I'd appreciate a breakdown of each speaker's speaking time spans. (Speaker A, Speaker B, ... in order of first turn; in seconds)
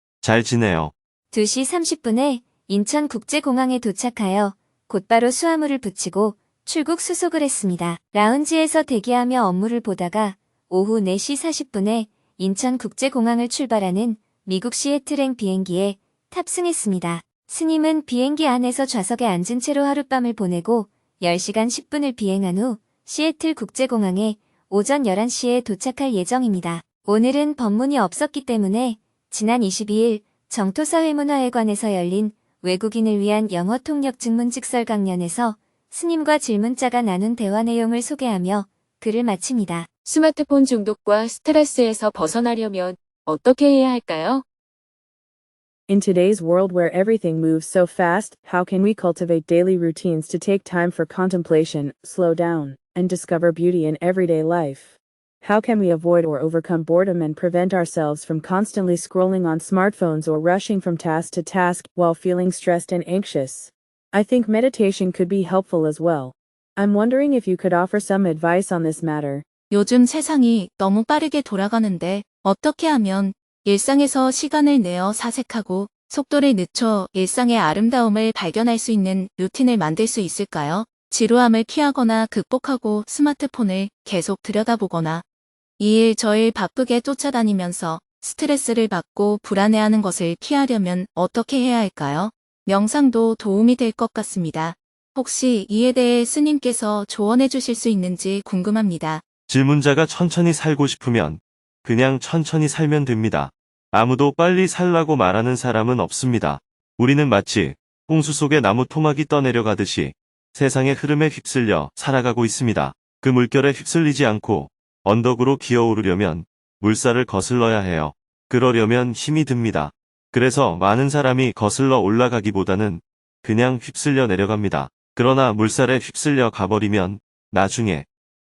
Speaker A: 0.2-0.9, 99.5-128.1
Speaker B: 1.3-39.9
Speaker C: 40.0-44.4
Speaker D: 45.9-69.5
Speaker E: 69.7-85.2, 85.8-99.2